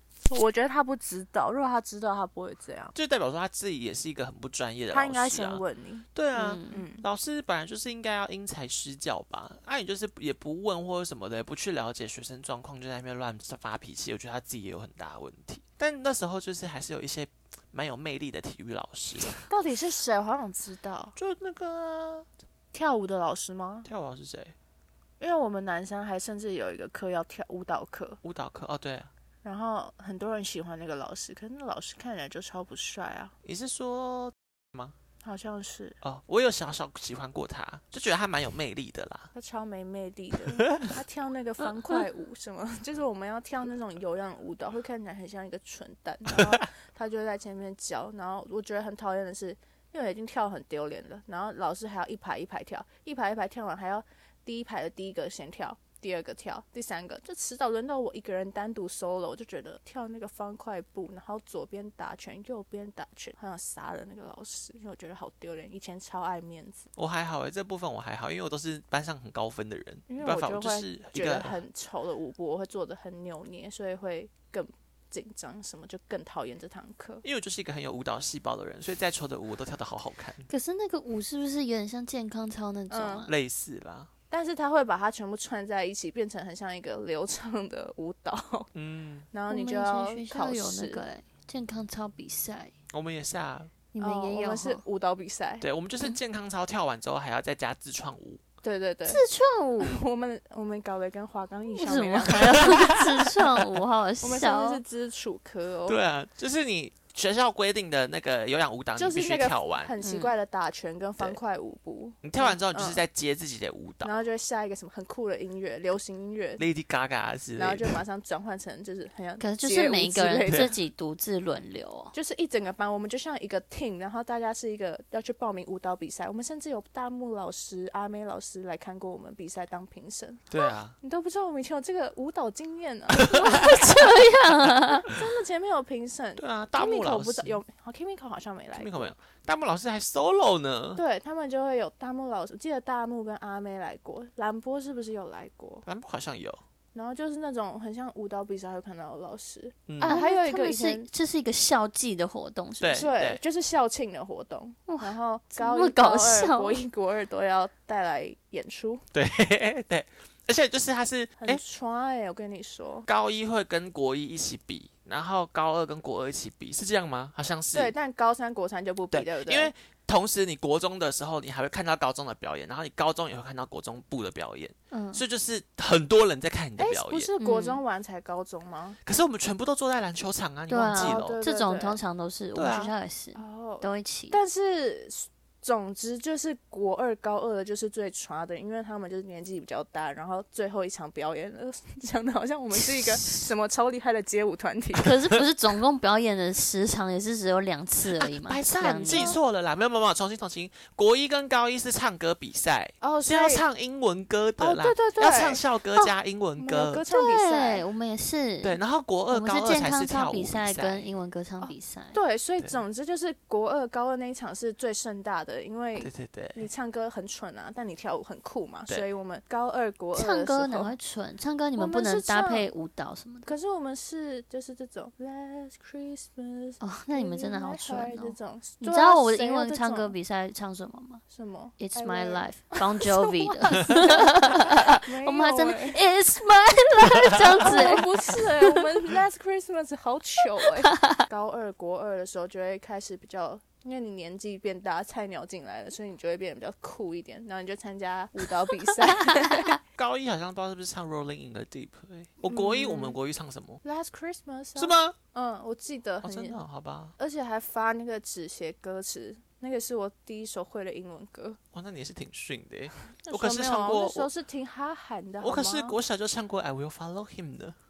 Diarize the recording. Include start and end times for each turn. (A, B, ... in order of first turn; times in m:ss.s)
0:00.3-0:02.9 A
0:02.9-0:05.6 B
0:04.9-0:06.1 A
0:06.1-0:19.5 B
0:06.3-0:06.8 C
0:06.7-0:07.0 A
0:19.4-0:21.2 A
0:21.2-0:22.3 B
0:22.7-0:23.9 A
0:23.8-0:24.5 B
0:25.2-0:28.2 A
0:28.2-0:29.1 B
0:29.4-0:33.3 A
0:33.4-0:34.9 B
0:35.2-0:36.0 A
0:36.0-0:39.3 B
0:39.3-1:06.9 A
1:07.0-1:11.6 B
1:10.1-1:17.2 A
1:17.2-1:20.5 B
1:20.5-1:23.3 C
1:22.9-1:23.3 A
1:23.3-1:24.1 B
1:24.3-1:28.7 A
1:28.7-1:29.2 B
1:29.3-1:31.0 A
1:29.5-1:32.7 C
1:32.9-1:33.7 B
1:33.9-1:34.8 C
1:34.0-1:35.6 A
1:35.6-1:38.4 B
1:38.6-1:39.2 A
1:39.0-1:40.0 C
1:39.8-1:42.9 A
1:41.8-1:44.8 C
1:42.4-1:43.4 B
1:44.2-1:46.0 A
1:45.8-1:49.9 B
1:49.0-1:53.0 A
1:50.0-1:50.3 C
1:52.2-1:54.1 B
1:54.0-1:56.6 A
1:56.6-1:58.0 B
1:57.6-2:00.7 A
1:59.4-2:02.1 C
2:02.1-2:10.5 A
2:10.5-2:11.0 B
2:11.0-2:14.1 A
2:13.2-2:13.5 B
2:13.3-2:15.1 C
2:15.0-2:19.1 A
2:16.4-2:17.6 B
2:18.7-2:21.0 B
2:21.0-2:25.8 A
2:25.8-2:26.6 B
2:26.9-2:31.1 A
2:29.9-2:30.2 B
2:30.0-2:33.1 C
2:32.8-2:33.4 B
2:32.9-2:39.0 A
2:34.9-2:36.8 C
2:39.1-2:41.6 B
2:41.4-2:43.1 A
2:43.1-2:47.9 B
2:47.7-2:49.7 A
2:49.1-2:57.3 B
2:54.9-2:55.2 C
2:56.8-2:59.0 A
2:57.4-2:57.8 C
2:59.0-3:01.4 B
3:00.7-3:04.4 C
3:00.9-3:02.0 A
3:02.5-3:02.9 B
3:03.3-3:15.1 A
3:12.8-3:13.4 C
3:15.0-3:19.4 C
3:18.2-3:27.0 B
3:19.0-3:19.4 A
3:23.0-3:23.6 A
3:24.6-3:25.6 A
3:26.6-3:27.8 A
3:27.1-3:28.8 C
3:28.6-3:31.1 B
3:29.3-3:32.2 C
3:31.6-3:40.9 A
3:36.0-3:36.7 B
3:40.1-3:43.5 C
3:41.8-3:42.7 A
3:43.4-3:50.1 A
3:46.8-3:51.2 C
3:51.3-3:56.0 A
3:51.8-3:58.8 C
3:57.6-4:09.8 A
4:00.8-4:01.2 C
4:09.1-4:09.7 C
4:09.9-4:13.8 B
4:12.5-4:13.2 A
4:13.8-4:16.6 A
4:14.7-4:15.2 B
4:16.2-4:17.1 B
4:17.2-4:21.6 A
4:21.7-4:24.3 B
4:23.2-4:26.0 A
4:25.4-4:27.8 B